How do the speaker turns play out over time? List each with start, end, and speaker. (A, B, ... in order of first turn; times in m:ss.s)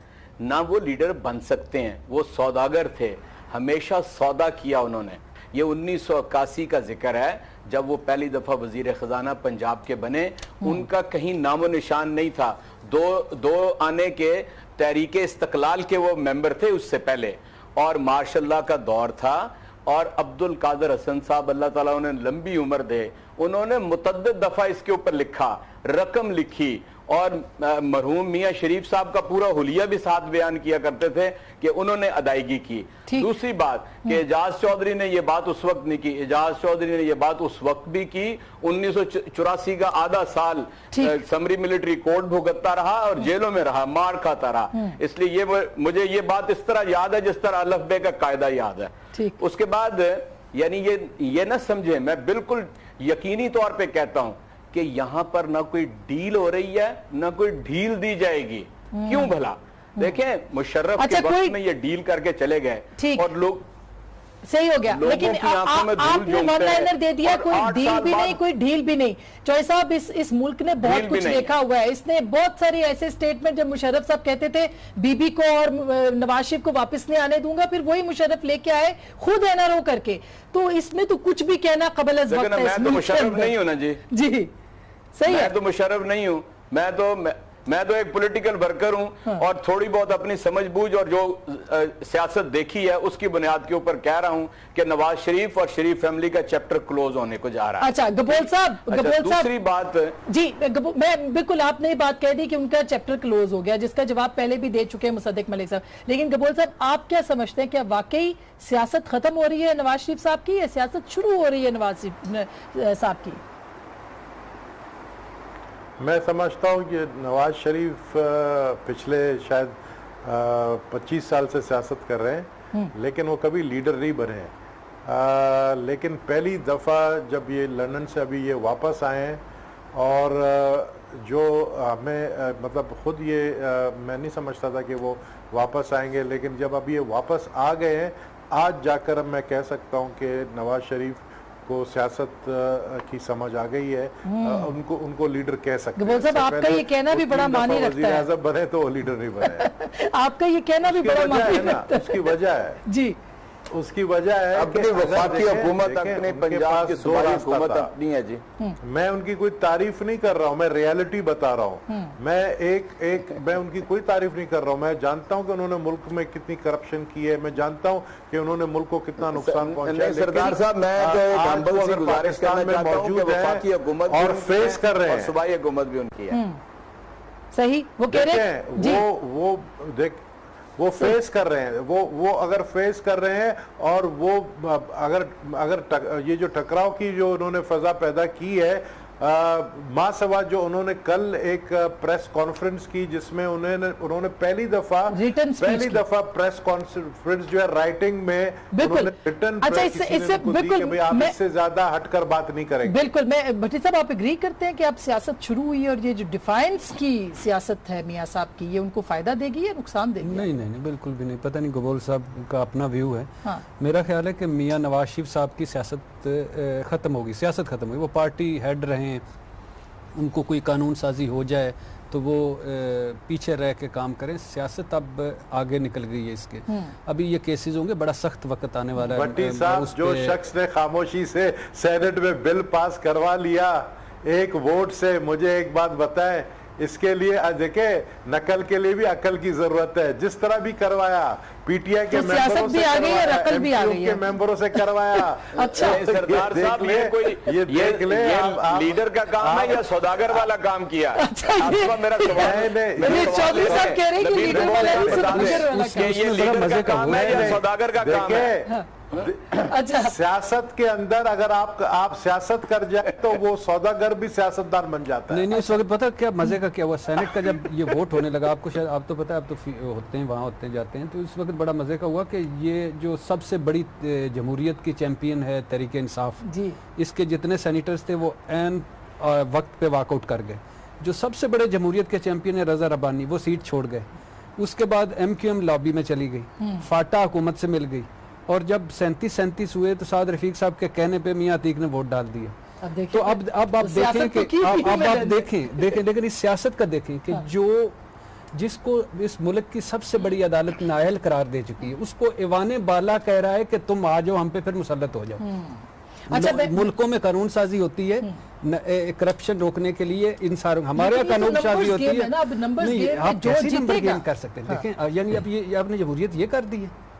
0:00.4-1:03.7 A
0:40.9-0:41.2 B
0:49.1-0:49.4 B
0:58.9-0:59.3 B
1:01.0-1:01.6 B
1:03.0-1:03.3 B
1:04.4-1:23.5 B
1:04.9-1:08.4 A
1:10.8-1:11.5 A
1:22.3-1:24.0 A
1:24.1-1:24.5 B
1:25.1-1:25.5 B
1:25.3-1:40.2 A
1:37.8-1:39.5 B
1:40.3-1:53.4 B
1:56.0-2:04.5 C
2:05.0-2:09.4 C
2:09.9-2:29.7 C
2:24.2-2:24.7 B
2:26.0-2:28.3 B
2:29.4-2:33.2 B
2:30.8-2:32.8 C
2:33.7-2:37.9 C
2:34.5-2:38.4 A
2:38.8-2:55.3 C
2:41.9-2:42.1 B
2:49.3-2:56.4 A
2:56.3-2:56.6 B
2:57.5-2:59.0 B
2:58.1-3:00.2 C
3:00.8-3:23.0 C
3:15.1-3:16.0 B
3:18.7-3:21.3 B
3:22.8-3:30.5 B
3:30.2-3:39.2 D
3:40.2-3:50.4 D
3:49.1-4:10.5 C
4:02.1-4:04.2 B
4:05.5-4:06.0 B
4:05.6-4:18.6 A
4:11.2-4:16.4 B
4:12.3-4:13.9 C
4:14.9-4:17.6 D
4:16.9-4:25.5 C
4:19.5-4:20.1 B
4:25.3-4:52.5 D
4:36.4-4:36.8 B
4:46.6-4:46.8 B
4:52.8-4:55.8 B
4:53.1-4:58.0 D
4:58.5-5:05.4 D
5:05.4-5:06.8 B
5:06.3-5:16.9 D
5:11.0-5:14.8 B